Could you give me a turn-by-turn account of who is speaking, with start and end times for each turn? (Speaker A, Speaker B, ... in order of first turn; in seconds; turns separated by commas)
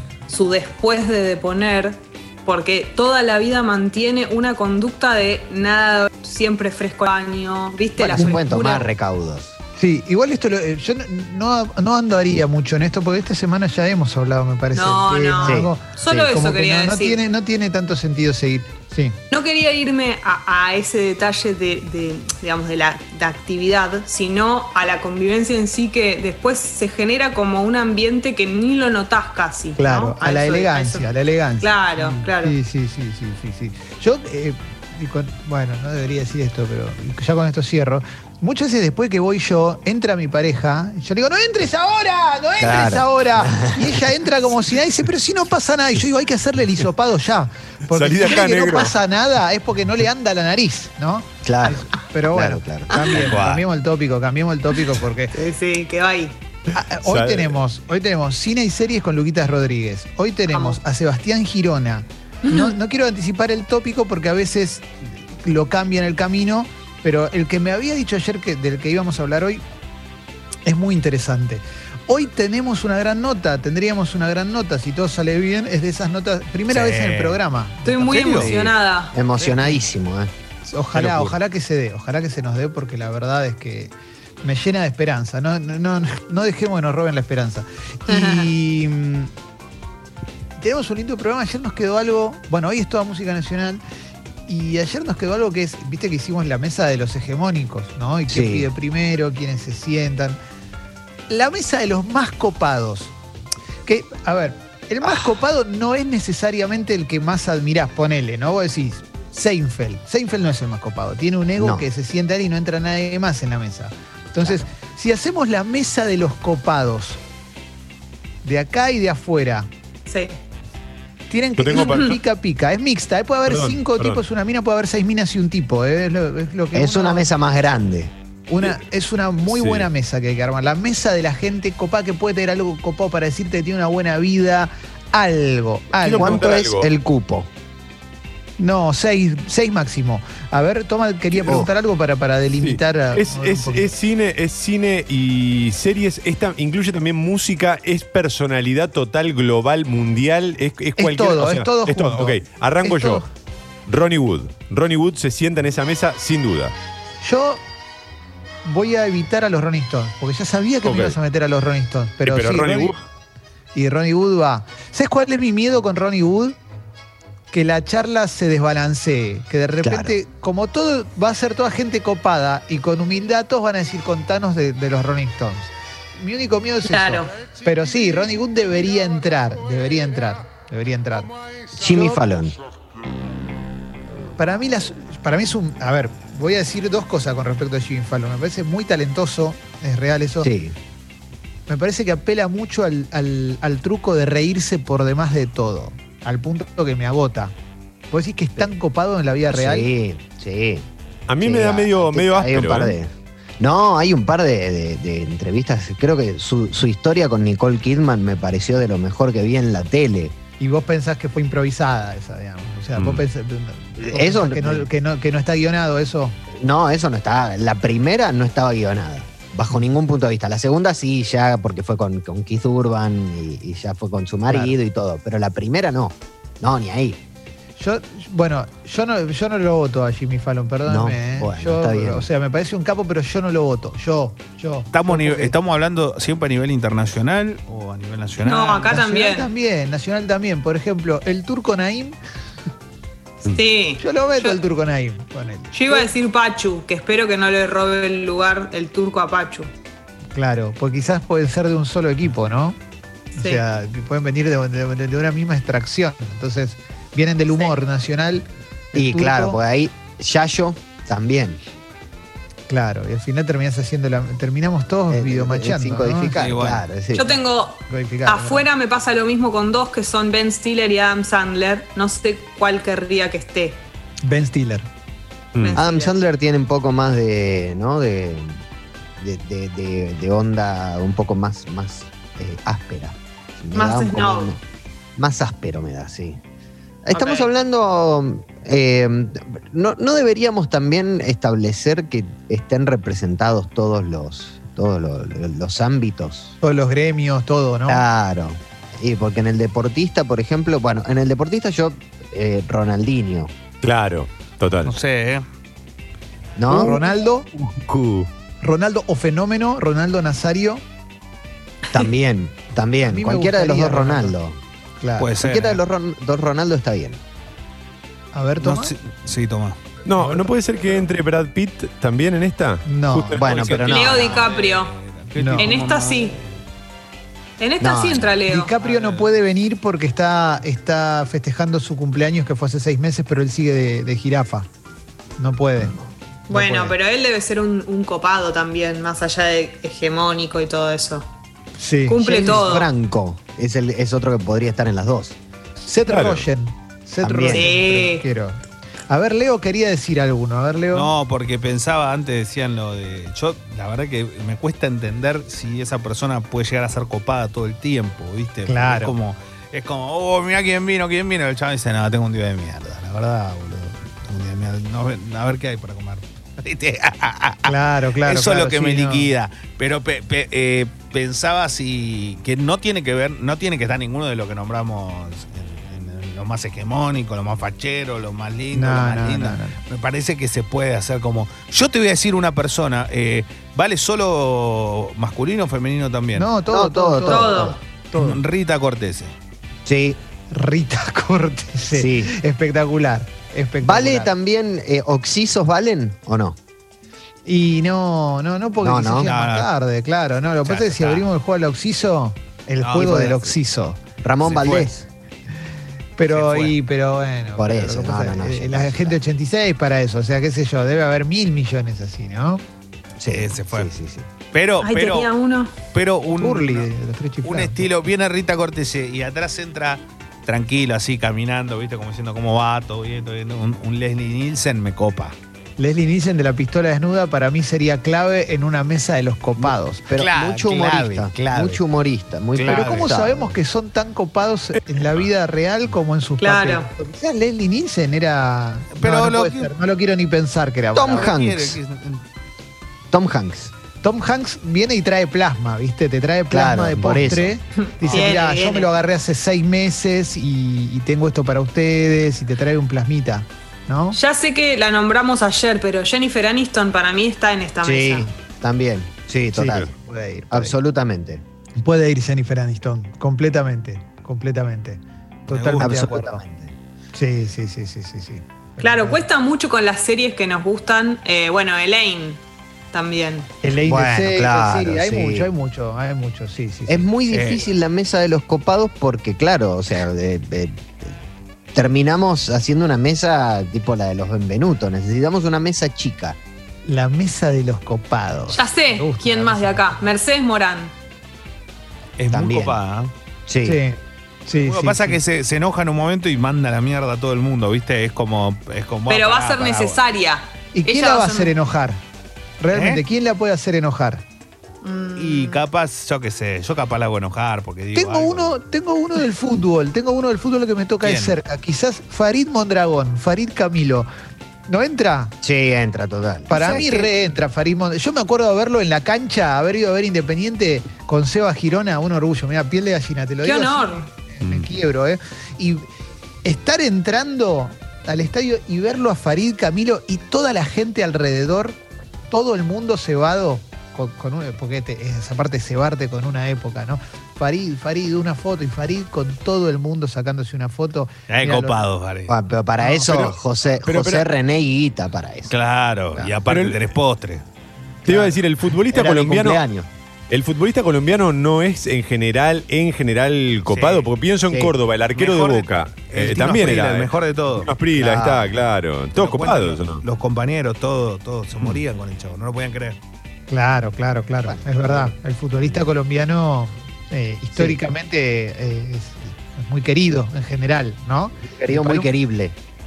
Speaker A: 0.3-8.8, Speaker B: 8.0-9.6, Speaker C: 8.2-8.4, Speaker C: 9.8-19.2, Speaker A: 14.7-17.2, Speaker B: 15.4-16.3, Speaker A: 19.3-31.1, Speaker C: 29.8-55.4, Speaker A: 31.6-32.5, Speaker B: 42.6-44.0, Speaker D: 47.9-48.9, Speaker B: 51.4-53.3, Speaker E: 53.1-53.6, Speaker A: 55.3-56.3, Speaker C: 56.7-69.6, Speaker D: 56.7-57.6, Speaker A: 60.5-60.8, Speaker A: 62.5-62.7, Speaker C: 70.6-78.3, Speaker E: 76.7-77.4, Speaker A: 77.8-79.1, Speaker E: 78.0-78.5, Speaker B: 78.4-80.3, Speaker C: 80.7-89.3, Speaker E: 80.9-81.4, Speaker A: 88.1-88.5, Speaker C: 90.6-93.8, Speaker C: 94.5-100.4, Speaker B: 98.3-98.7, Speaker C: 101.3-103.1, Speaker C: 103.8-117.2, Speaker B: 111.6-111.8, Speaker B: 114.4-114.7, Speaker C: 118.4-119.7, Speaker A: 120.1-120.4, Speaker C: 121.3-127.3, Speaker D: 121.6-122.2, Speaker A: 121.8-122.1, Speaker D: 123.5-124.2, Speaker B: 126.7-128.1, Speaker C: 128.5-136.5, Speaker D: 129.5-129.9, Speaker D: 135.9-136.9, Speaker B: 136.1-137.5, Speaker C: 138.6-143.9, Speaker B: 141.4-141.7, Speaker D: 142.6-153.2, Speaker C: 151.0-153.2, Speaker D: 153.8-156.7, Speaker C: 157.2-157.6, Speaker C: 158.6-162.9, Speaker D: 160.8-161.2, Speaker D: 162.2-163.0, Speaker C: 163.7-166.6, Speaker C: 167.5-182.2, Speaker B: 169.8-170.1, Speaker A: 176.8-177.3, Speaker B: 181.7-182.5, Speaker C: 184.4-190.5, Speaker B: 190.4-190.7, Speaker C: 191.7-197.5, Speaker C: 198.1-199.9, Speaker B: 199.5-200.9, Speaker D: 201.3-203.0, Speaker B: 201.4-210.3, Speaker C: 210.6-216.4, Speaker D: 212.9-213.2, Speaker B: 214.0-214.9, Speaker B: 216.5-227.2, Speaker C: 224.5-224.7, Speaker C: 227.8-235.5, Speaker B: 230.8-232.3, Speaker E: 234.9-239.0, Speaker A: 238.4-239.5, Speaker C: 238.9-242.2, Speaker A: 243.4-244.6, Speaker C: 244.0-246.1, Speaker A: 245.7-249.7, Speaker C: 250.3-252.8, Speaker C: 253.3-259.6, Speaker A: 253.4-253.6, Speaker B: 258.9-261.6, Speaker C: 262.7-266.4, Speaker B: 265.1-267.4, Speaker E: 266.3-266.8, Speaker A: 267.1-273.8, Speaker C: 267.9-268.6, Speaker C: 274.2-274.9, Speaker D: 275.5-275.8, Speaker A: 275.6-276.1, Speaker B: 275.8-278.6, Speaker B: 279.2-284.6, Speaker A: 283.7-284.5, Speaker B: 285.2-286.4, Speaker B: 287.0-296.5, Speaker A: 287.1-287.5, Speaker C: 296.6-298.0, Speaker B: 297.9-303.5, Speaker D: 303.8-304.9, Speaker E: 304.8-305.4, Speaker B: 306.6-307.0, Speaker C: 306.7-307.5, Speaker D: 307.5-308.3, Speaker C: 308.6-310.8, Speaker B: 311.9-314.6, Speaker C: 313.0-314.3, Speaker C: 315.0-315.3, Speaker E: 315.2-315.8, Speaker B: 315.4-317.2, Speaker C: 318.3-318.9, Speaker E: 318.6-319.8, Speaker D: 320.0-323.7, Speaker C: 322.8-323.4, Speaker B: 323.4-324.5, Speaker E: 323.4-326.6, Speaker A: 323.8-324.9, Speaker C: 325.4-325.7, Speaker A: 325.6-326.4, Speaker A: 327.6-328.7, Speaker B: 327.8-328.4, Speaker C: 328.4-334.7, Speaker E: 328.8-329.3, Speaker C: 335.4-336.0, Speaker A: 336.5-341.2, Speaker C: 336.5-336.9, Speaker C: 341.8-342.6, Speaker A: 342.1-342.9, Speaker B: 342.2-345.4, Speaker C: 345.8-351.1, Speaker D: 346.1-346.4, Speaker B: 347.2-347.7, Speaker A: 347.5-348.2, Speaker E: 350.9-386.5, Speaker C: 358.7-359.1, Speaker C: 367.6-369.3, Speaker C: 378.7-379.8, Speaker C: 386.3-388.4, Speaker B: 386.7-387.8, Speaker A: 387.2-387.8, Speaker E: 388.1-389.3, Speaker B: 389.8-390.2, Speaker C: 390.5-394.3, Speaker B: 391.9-392.3, Speaker B: 393.8-396.6, Speaker C: 397.4-404.9, Speaker B: 398.8-399.3, Speaker E: 399.1-399.7, Speaker E: 400.6-401.3, Speaker E: 402.8-403.4, Speaker B: 403.0-403.4, Speaker B: 404.2-405.0, Speaker E: 404.4-404.9, Speaker C: 406.2-412.6, Speaker E: 406.3-406.8, Speaker B: 407.6-409.2, Speaker B: 413.2-414.3, Speaker E: 413.3-413.9, Speaker E: 414.5-415.3, Speaker A: 414.8-415.7, Speaker E: 415.9-416.9, Speaker C: 416.3-417.9, Speaker E: 417.4-425.4, Speaker C: 425.8-430.1, Speaker B: 429.6-433.5, Speaker E: 430.1-431.8, Speaker E: 432.5-433.1, Speaker C: 432.6-441.4, Speaker D: 434.7-435.2, Speaker A: 436.4-436.9, Speaker E: 438.9-439.7, Speaker B: 440.9-441.8, Speaker E: 440.9-442.2, Speaker B: 443.1-443.7, Speaker C: 444.0-454.2, Speaker B: 446.5-447.6, Speaker A: 447.9-448.9, Speaker A: 454.1-458.3, Speaker B: 457.8-459.9, Speaker C: 459.5-460.8, Speaker B: 460.5-461.4, Speaker C: 461.8-466.4, Speaker E: 465.5-466.0, Speaker B: 465.8-466.7, Speaker C: 467.1-469.2, Speaker A: 468.8-472.4, Speaker A: 472.9-473.5, Speaker C: 473.6-477.1, Speaker B: 473.8-475.5, Speaker B: 476.9-481.1, Speaker E: 477.3-477.6, Speaker B: 481.7-486.4, Speaker C: 486.9-490.0, Speaker A: 488.5-490.9, Speaker E: 492.2-493.1, Speaker B: 492.3-492.8, Speaker B: 493.5-493.8, Speaker C: 493.6-495.2, Speaker E: 494.6-500.0, Speaker A: 499.1-501.5, Speaker C: 500.7-502.0, Speaker C: 502.6-504.2, Speaker E: 502.7-503.0, Speaker A: 504.8-505.6, Speaker E: 505.1-508.6, Speaker C: 507.9-514.1, Speaker E: 511.0-511.4, Speaker C: 514.7-515.3, Speaker B: 515.4-517.0, Speaker C: 516.5-525.9, Speaker A: 523.4-524.1, Speaker C: 526.4-531.8, Speaker C: 532.3-541.9, Speaker E: 541.3-542.4, Speaker B: 542.3-545.5, Speaker C: 542.8-543.2, Speaker D: 543.8-544.3, Speaker E: 545.5-547.4, Speaker D: 546.5-546.9, Speaker C: 548.0-548.4, Speaker D: 548.0-549.6, Speaker B: 548.9-549.9, Speaker D: 550.3-560.0, Speaker E: 553.7-554.1, Speaker E: 555.1-557.7, Speaker B: 558.0-558.5, Speaker E: 559.1-563.0, Speaker C: 563.5-572.1, Speaker B: 564.4-565.1, Speaker B: 567.5-567.8, Speaker B: 571.4-572.5